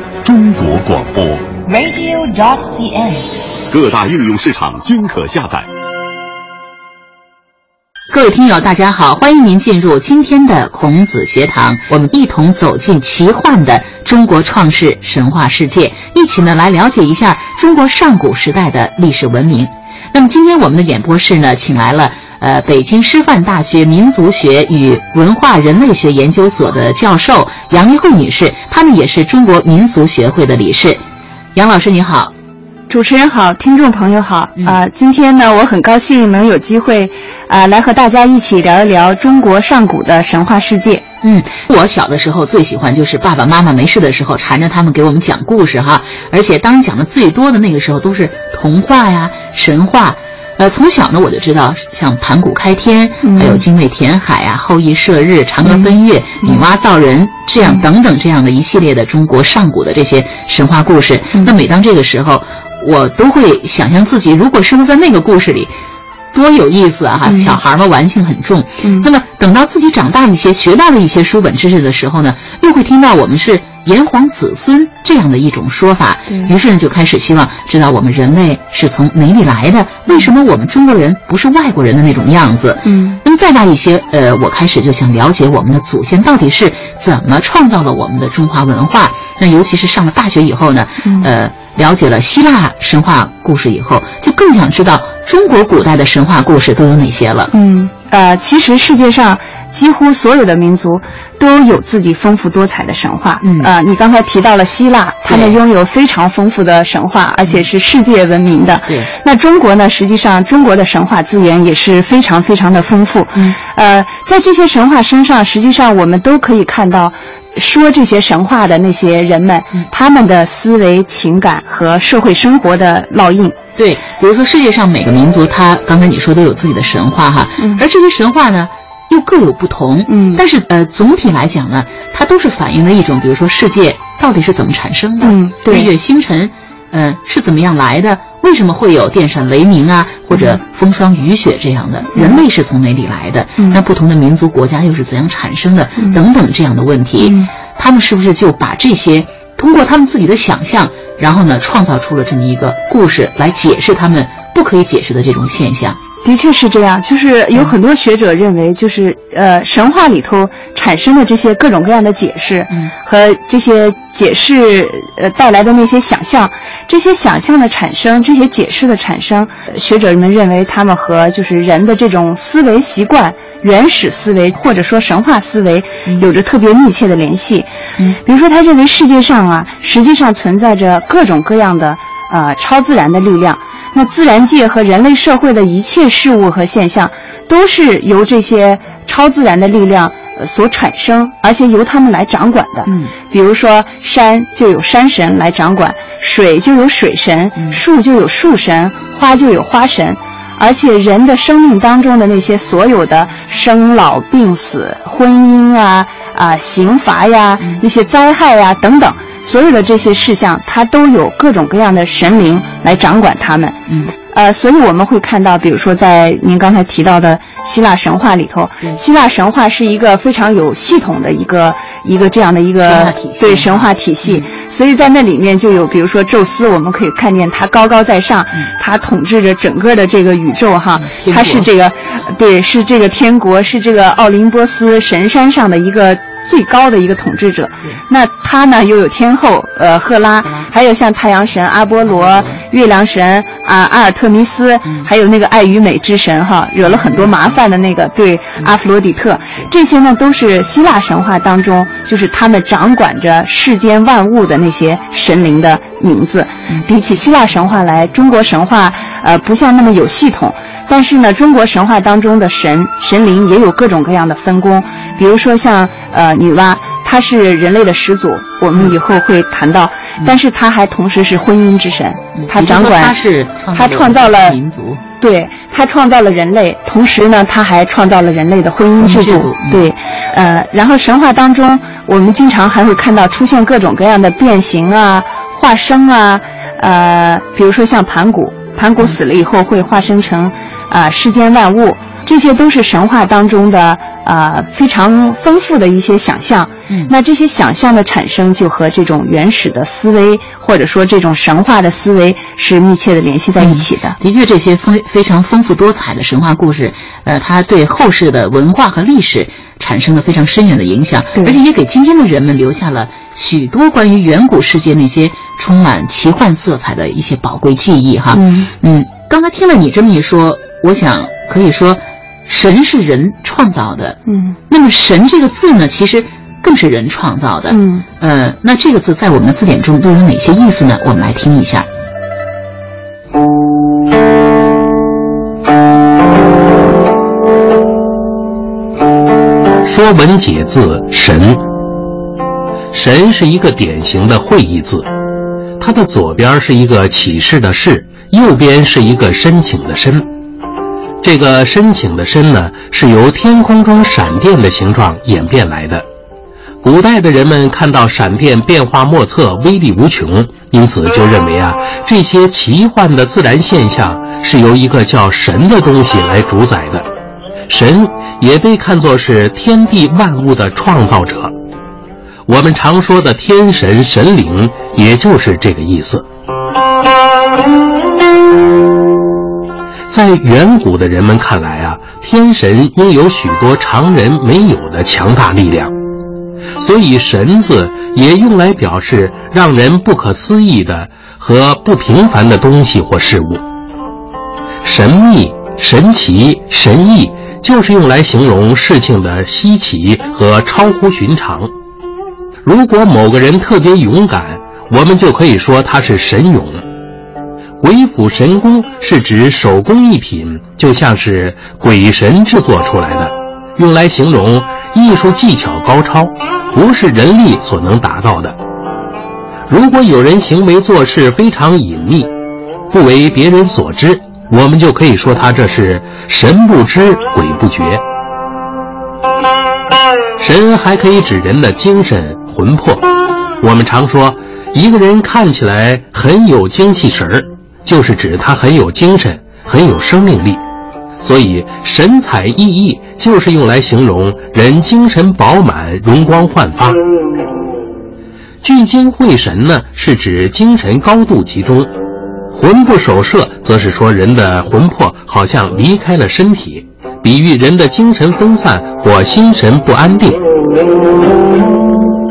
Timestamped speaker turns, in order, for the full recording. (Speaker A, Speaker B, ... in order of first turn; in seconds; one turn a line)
Speaker A: 0.2-1.5
Speaker B: 1.6-3.7
Speaker A: 3.7-5.7
Speaker C: 8.1-31.0
Speaker C: 31.5-32.3
Speaker D: 32.9-41.0
Speaker C: 41.2-65.7
Speaker D: 53.2-53.6
Speaker C: 66.3-97.5
Speaker D: 67.3-67.6
Speaker D: 68.8-69.1
Speaker D: 82.8-83.2
Speaker D: 91.0-91.3
Speaker D: 97.5-123.6
Speaker C: 103.4-103.7
Speaker C: 105.3-105.6
Speaker C: 123.8-156.0
Speaker D: 130.1-130.4
Speaker D: 135.2-135.9
Speaker D: 142.1-142.4
Speaker D: 147.2-147.5
Speaker D: 156.2-213.8
Speaker C: 192.8-193.1
Speaker C: 213.9-214.1
Speaker D: 214.3-273.1
Speaker C: 222.8-224.5
Speaker C: 230.9-231.7
Speaker C: 272.4-275.0
Speaker D: 273.7-274.6
Speaker D: 275.2-304.2
Speaker C: 279.0-279.9
Speaker C: 303.6-331.9
Speaker D: 318.3-318.7
Speaker D: 324.3-324.6
Speaker D: 327.7-328.0
Speaker E: 339.8-341.6
Speaker E: 342.9-345.1
Speaker E: 345.8-350.3
Speaker E: 351.2-356.1
Speaker E: 356.8-367.1
Speaker E: 367.7-371.5
Speaker E: 372.5-376.2
Speaker E: 380.1-385.9
Speaker E: 386.8-393.6
Speaker E: 394.8-401.7
Speaker E: 402.6-406.8
Speaker E: 407.8-418.5
Speaker E: 419.7-422.3
Speaker E: 422.9-428.0
Speaker E: 430.4-433.1
Speaker E: 433.6-440.6
Speaker E: 441.2-447.0
Speaker E: 448.6-451.9
Speaker E: 452.5-460.4